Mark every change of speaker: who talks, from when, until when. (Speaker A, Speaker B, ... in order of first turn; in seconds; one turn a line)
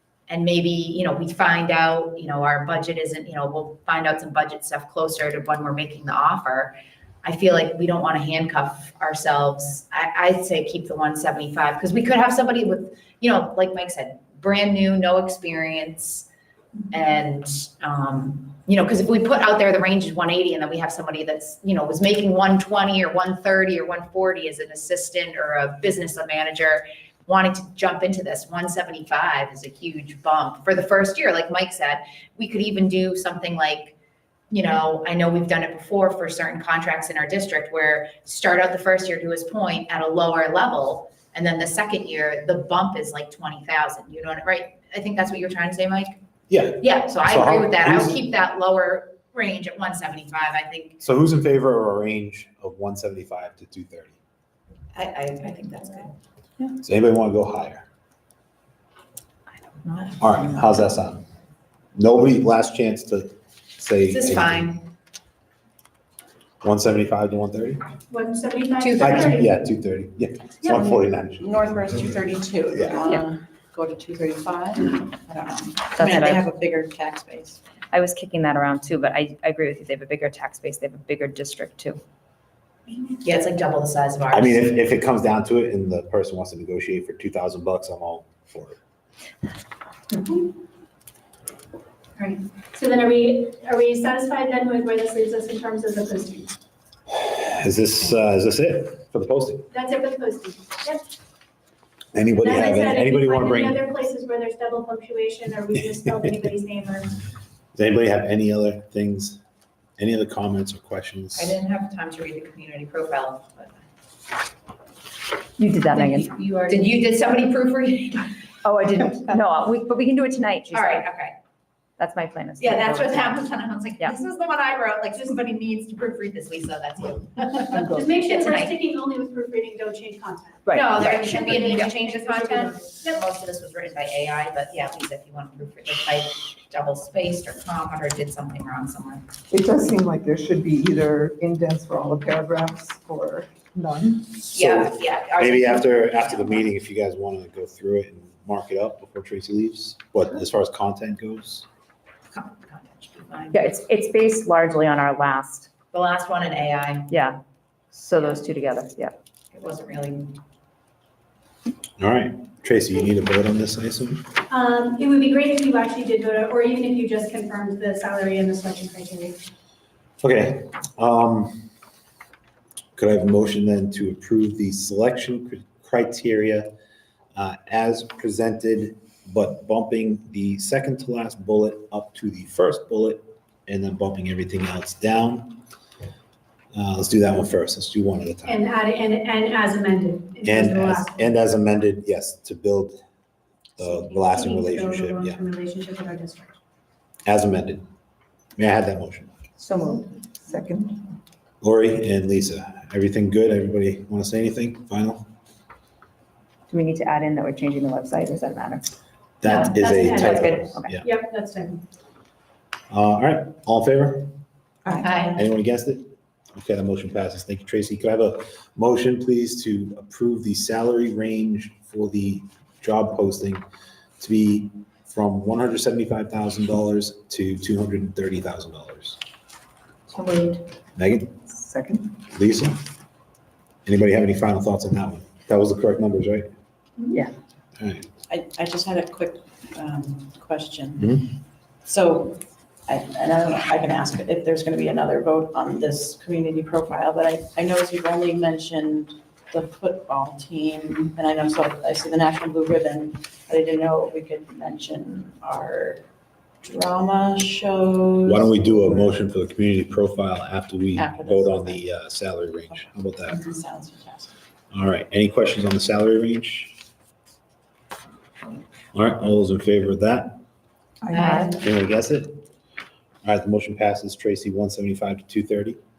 Speaker A: 0.3-16.3
Speaker A: 16.9-34.0
Speaker A: 34.5-46.2
Speaker B: 46.5-48.2
Speaker A: 46.8-51.0
Speaker B: 51.0-54.2
Speaker A: 54.9-56.1
Speaker B: 56.8-57.9
Speaker B: 60.2-61.2
Speaker B: 61.9-64.7
Speaker A: 64.1-64.8
Speaker B: 66.6-67.8
Speaker C: 68.1-69.5
Speaker A: 68.8-69.3
Speaker B: 69.0-72.0
Speaker D: 70.7-77.6
Speaker E: 75.9-76.5
Speaker E: 77.9-82.0
Speaker A: 83.2-84.7
Speaker B: 84.3-88.8
Speaker C: 90.1-90.5
Speaker C: 92.2-96.5
Speaker B: 97.1-99.7
Speaker C: 99.7-101.0
Speaker B: 102.1-103.8
Speaker C: 102.4-107.1
Speaker B: 107.8-109.4
Speaker B: 110.0-111.5
Speaker A: 111.4-113.8
Speaker E: 115.6-116.3
Speaker C: 116.2-116.8
Speaker A: 116.7-118.3
Speaker E: 118.6-121.1
Speaker A: 120.7-121.3
Speaker E: 122.0-123.4
Speaker A: 122.6-128.8
Speaker F: 127.7-128.0
Speaker C: 127.9-132.8
Speaker E: 130.7-131.8
Speaker A: 130.7-139.2
Speaker F: 139.5-144.2
Speaker A: 144.5-146.6
Speaker B: 145.4-151.7
Speaker A: 152.3-153.7
Speaker E: 153.5-155.7
Speaker A: 155.9-157.1
Speaker E: 157.1-157.4
Speaker E: 157.9-159.1
Speaker A: 158.2-158.4
Speaker A: 159.5-160.4
Speaker B: 162.0-164.2
Speaker C: 164.5-169.4
Speaker B: 170.2-171.7
Speaker B: 173.0-176.7
Speaker B: 177.3-185.6
Speaker B: 186.7-188.6
Speaker C: 188.4-191.2
Speaker B: 190.4-193.0
Speaker B: 193.8-195.4
Speaker C: 193.8-196.6
Speaker B: 197.2-197.8
Speaker B: 198.6-199.3
Speaker E: 199.7-200.0
Speaker F: 200.5-200.9
Speaker B: 201.6-205.3
Speaker E: 206.7-208.9
Speaker B: 209.4-211.0
Speaker C: 209.4-211.8
Speaker E: 209.5-210.9
Speaker B: 212.9-214.3
Speaker E: 214.8-215.2
Speaker A: 215.0-215.4
Speaker B: 215.3-223.6
Speaker B: 224.2-229.2
Speaker E: 230.1-230.6
Speaker B: 231.0-231.3
Speaker B: 232.3-232.8
Speaker B: 233.8-236.5
Speaker B: 237.8-238.1
Speaker D: 238.3-241.2
Speaker B: 241.0-241.3
Speaker D: 241.9-256.0
Speaker D: 256.6-259.1
Speaker B: 258.2-263.4
Speaker D: 260.9-261.8
Speaker D: 262.7-264.3
Speaker B: 264.7-266.8
Speaker B: 268.9-270.4
Speaker E: 271.1-271.4
Speaker A: 271.1-271.6
Speaker B: 271.5-272.4
Speaker B: 273.2-275.8